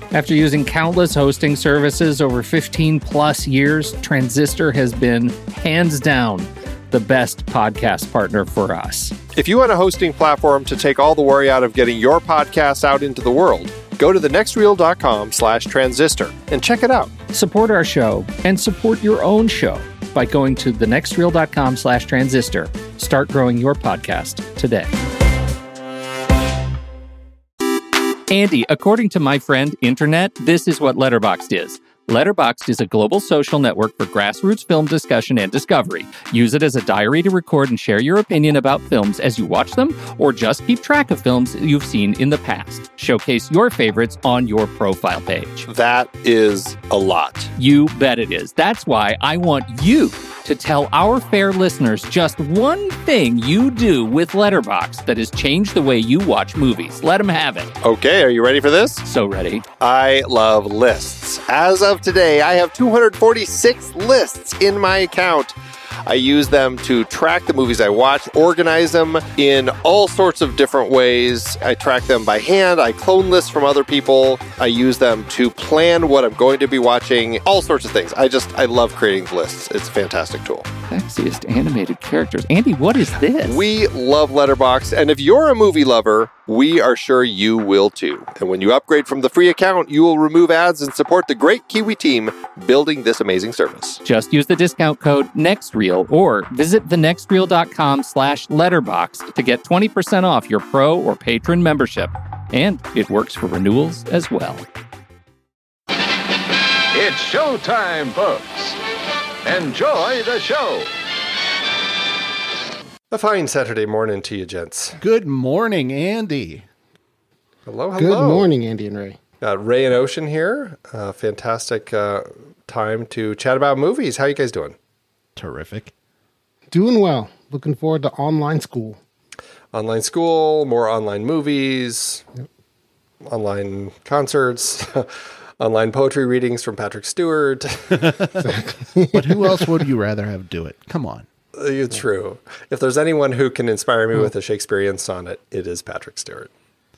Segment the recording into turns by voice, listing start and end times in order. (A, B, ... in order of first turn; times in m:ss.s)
0:00.1-0:09.1 A
0:09.3-0:17.1 B
0:17.3-0:24.9 A
0:28.3-0:45.6 A
0:45.7-0:47.5 B
0:47.6-0:57.7 A
0:57.8-0:59.0 B
0:59.0-0:59.6 A
0:59.8-1:05.5 B
1:06.0-1:20.7 B
1:20.9-1:23.6 A
1:23.5-1:34.0 B
1:34.0-1:44.6 A
1:46.9-1:48.8 C
1:49.4-1:50.9 C
1:53.1-1:55.0 B
1:55.0-1:56.6 D
1:57.7-1:58.5 B
1:58.0-1:59.2 E
1:59.4-2:04.8 B
2:05.4-2:05.9 D
2:06.7-2:09.0 E
2:09.7-2:12.2 B
2:13.2-2:18.2 B
2:17.9-2:18.5 D
2:18.4-2:19.5 E
2:19.1-2:21.3 D
2:21.5-2:26.5 B